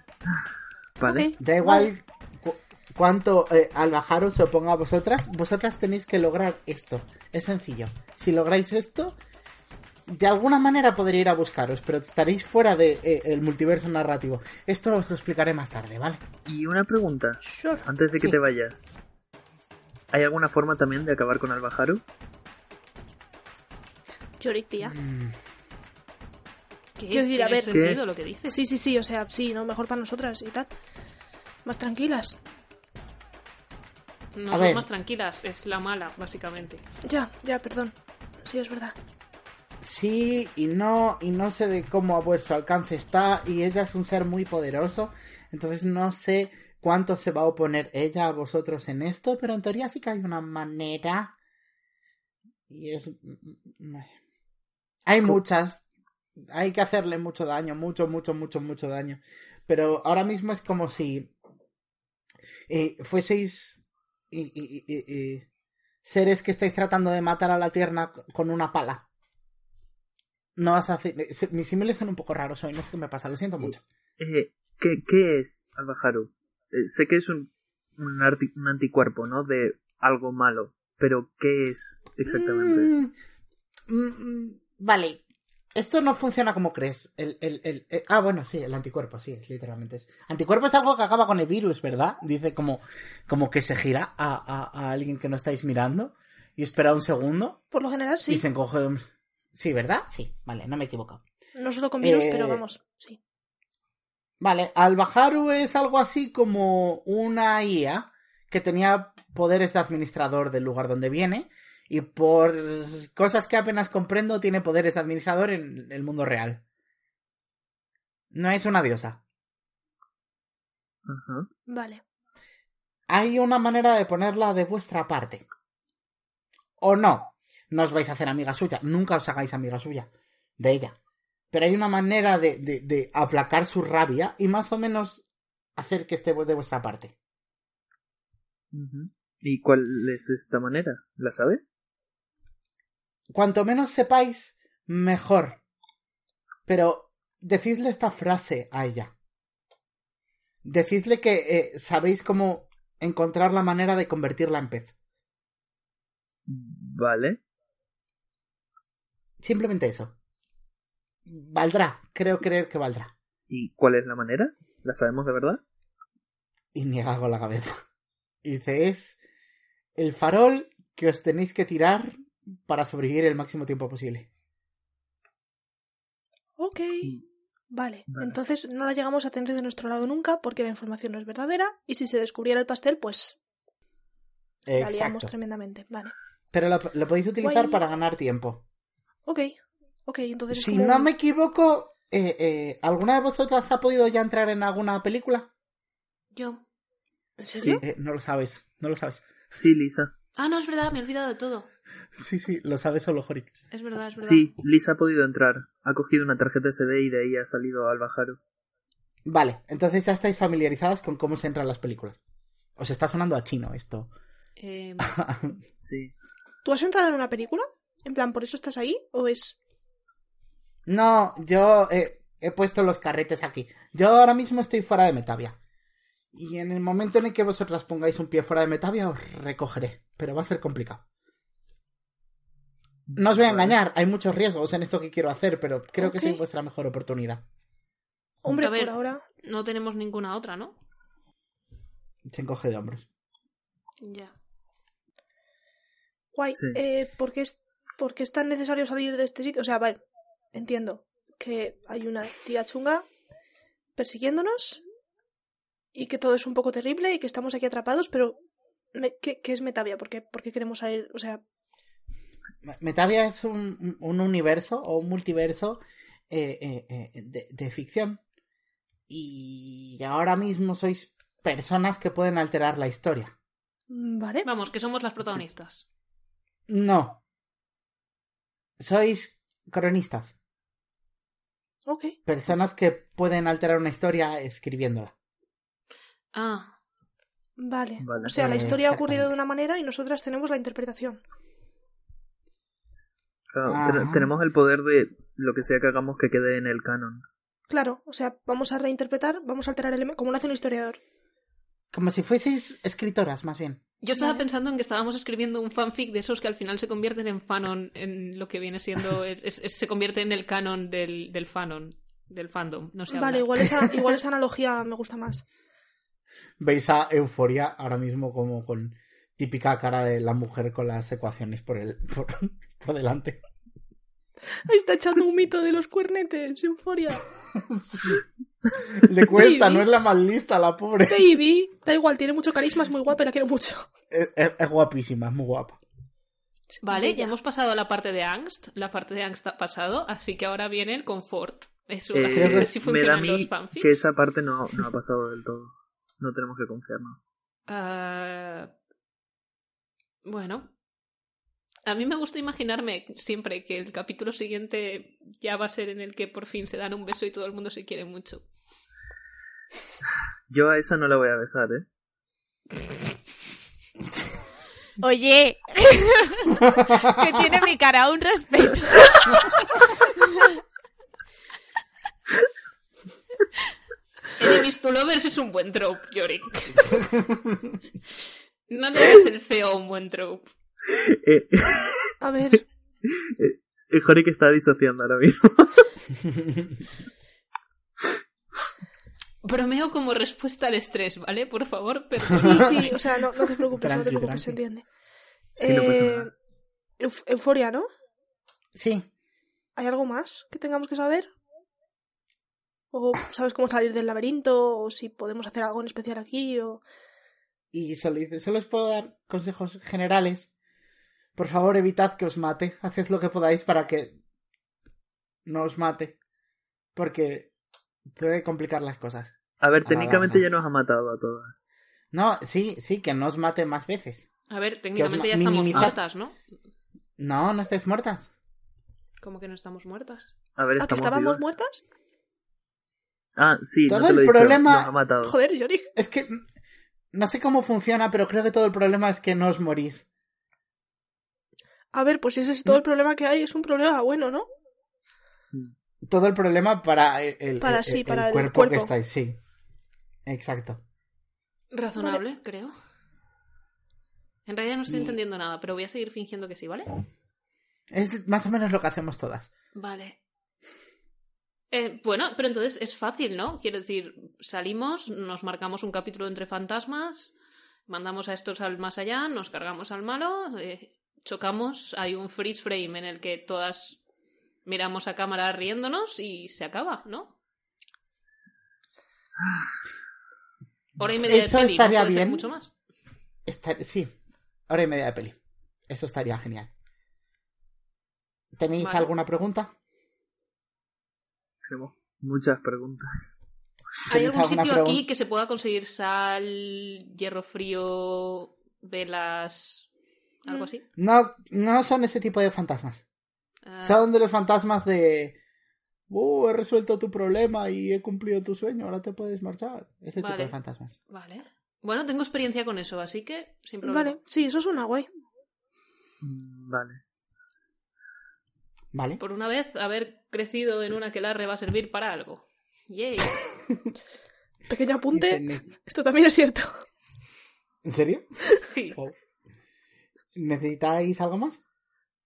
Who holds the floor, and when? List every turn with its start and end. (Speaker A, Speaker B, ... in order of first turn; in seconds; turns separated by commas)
Speaker A: 1.0-1.3, Speaker B: 1.0-1.9, Speaker C: 1.4-9.2, Speaker C: 10.1-16.2, Speaker A: 16.4-18.9, Speaker B: 17.4-18.4, Speaker A: 20.1-22.0, Speaker B: 24.4-24.9, Speaker C: 24.8-25.4, Speaker D: 27.0-28.6, Speaker B: 27.1-27.7, Speaker A: 27.7-28.0, Speaker B: 28.5-30.7, Speaker B: 31.6-32.4, Speaker D: 34.3-36.8, Speaker C: 34.5-34.9, Speaker B: 37.0-38.9, Speaker C: 39.8-51.3, Speaker C: 52.7-54.1, Speaker C: 55.1-55.8, Speaker C: 56.4-61.3, Speaker C: 62.7-65.5, Speaker C: 66.0-69.0, Speaker C: 70.5-73.8, Speaker A: 74.2-82.9, Speaker C: 82.2-83.1, Speaker C: 83.9-85.2, Speaker C: 85.7-97.6, Speaker B: 97.7-98.4, Speaker C: 98.3-101.2, Speaker B: 101.5-103.2, Speaker C: 102.0-102.6, Speaker C: 104.4-116.6, Speaker C: 118.3-119.2, Speaker A: 121.1-121.5, Speaker B: 121.7-122.0, Speaker C: 123.1-125.4, Speaker C: 126.8-130.9, Speaker C: 131.5-135.2, Speaker C: 135.8-137.1, Speaker A: 138.7-141.6, Speaker C: 143.3-145.6, Speaker C: 146.7-149.1, Speaker C: 150.6-154.9, Speaker A: 156.5-157.4, Speaker C: 159.4-160.1, Speaker C: 161.2-163.1, Speaker A: 163.5-165.6, Speaker C: 166.7-167.8, Speaker C: 168.4-169.2, Speaker C: 169.9-174.3, Speaker B: 176.6-177.1, Speaker B: 177.7-183.4, Speaker A: 178.1-178.3, Speaker C: 184.7-185.3, Speaker B: 184.8-186.1, Speaker C: 186.5-188.6, Speaker B: 187.4-187.8, Speaker B: 189.2-189.5, Speaker B: 190.1-191.1, Speaker C: 190.5-195.5, Speaker D: 196.3-196.6, Speaker B: 197.4-197.8, Speaker C: 197.6-199.2, Speaker A: 199.5-200.1, Speaker D: 200.3-201.7, Speaker C: 202.1-203.5, Speaker D: 203.7-204.5, Speaker A: 204.2-208.4, Speaker C: 209.2-212.2, Speaker C: 212.8-214.1, Speaker D: 214.6-215.1, Speaker C: 215.0-215.6, Speaker A: 215.7-216.1, Speaker B: 216.6-219.6, Speaker C: 220.8-225.6, Speaker C: 226.3-231.0, Speaker A: 233.1-233.7, Speaker C: 233.2-237.4, Speaker B: 236.0-236.4, Speaker B: 238.4-239.2, Speaker D: 238.6-240.8, Speaker C: 242.3-243.1, Speaker D: 244.0-244.3, Speaker B: 246.3-250.0, Speaker B: 250.5-253.0, Speaker B: 253.9-254.8, Speaker B: 255.9-258.4, Speaker B: 258.9-261.4, Speaker C: 262.6-268.2, Speaker C: 269.1-273.3, Speaker B: 273.9-274.5, Speaker D: 274.4-275.8, Speaker C: 276.7-277.2, Speaker C: 278.8-280.3, Speaker B: 281.9-282.1, Speaker C: 282.2-285.1, Speaker D: 286.3-286.8, Speaker B: 287.6-291.2, Speaker A: 288.0-288.7, Speaker C: 288.3-289.3, Speaker A: 293.5-297.2, Speaker C: 293.7-294.3, Speaker B: 297.7-301.0, Speaker C: 301.9-303.8, Speaker D: 304.0-313.6, Speaker B: 304.2-304.4, Speaker B: 313.1-315.4, Speaker C: 316.6-323.4, Speaker B: 324.6-327.3, Speaker C: 327.7-328.2, Speaker C: 328.9-331.3, Speaker B: 329.2-329.9, Speaker B: 331.1-333.9, Speaker C: 334.1-335.8, Speaker B: 336.7-337.3, Speaker D: 336.8-344.1, Speaker A: 342.1-347.2, Speaker C: 342.3-342.7, Speaker D: 347.7-348.7, Speaker D: 350.2-350.7, Speaker D: 351.9-358.4, Speaker A: 360.5-361.8, Speaker E: 365.0-369.5, Speaker D: 374.4-377.0, Speaker C: 377.0-377.6, Speaker D: 378.7-380.5, Speaker A: 380.9-382.1, Speaker B: 382.2-382.6, Speaker A: 383.1-385.8, Speaker D: 389.4-393.4, Speaker B: 392.3-394.8, Speaker C: 393.8-394.6, Speaker B: 395.6-396.3, Speaker A: 395.6-396.3, Speaker B: 397.0-397.9, Speaker C: 398.7-399.1, Speaker B: 399.8-401.3, Speaker B: 402.9-406.8, Speaker C: 407.7-410.5, Speaker C: 411.4-414.2, Speaker C: 415.4-416.2, Speaker C: 416.9-417.5, Speaker C: 418.1-420.5, Speaker A: 419.6-421.5, Speaker C: 422.1-424.3, Speaker D: 424.5-426.3, Speaker C: 424.9-426.0, Speaker C: 427.2-428.3, Speaker D: 429.2-430.3, Speaker A: 430.6-431.4, Speaker B: 430.8-431.8, Speaker A: 433.4-435.3, Speaker C: 433.9-434.9, Speaker B: 435.2-435.9, Speaker C: 435.9-436.4, Speaker C: 437.1-440.0, Speaker B: 441.9-444.5, Speaker C: 446.1-449.4, Speaker B: 447.6-448.9, Speaker C: 450.2-450.8, Speaker D: 451.7-452.7, Speaker D: 454.4-456.9, Speaker C: 454.9-455.2, Speaker C: 457.9-459.5, Speaker D: 459.7-460.2, Speaker D: 461.7-467.3, Speaker D: 467.9-474.0, Speaker D: 474.6-477.3, Speaker D: 481.0-482.7, Speaker C: 481.2-482.5, Speaker C: 483.4-484.1, Speaker C: 484.7-485.4, Speaker C: 485.9-486.7, Speaker C: 488.6-489.7, Speaker D: 488.8-489.1, Speaker A: 491.6-493.4, Speaker C: 494.1-495.0, Speaker D: 494.1-499.9, Speaker D: 500.4-500.8, Speaker C: 501.0-503.0, Speaker D: 503.6-504.0, Speaker C: 503.8-505.4, Speaker C: 506.1-510.9, Speaker D: 510.2-510.6, Speaker D: 511.1-514.2, Speaker B: 513.8-515.1, Speaker A: 516.2-517.0, Speaker C: 518.9-519.2, Speaker D: 519.2-523.5, Speaker B: 524.7-526.7, Speaker C: 525.1-525.6, Speaker C: 527.8-528.3, Speaker D: 528.6-529.0, Speaker C: 528.9-529.2, Speaker C: 530.3-531.6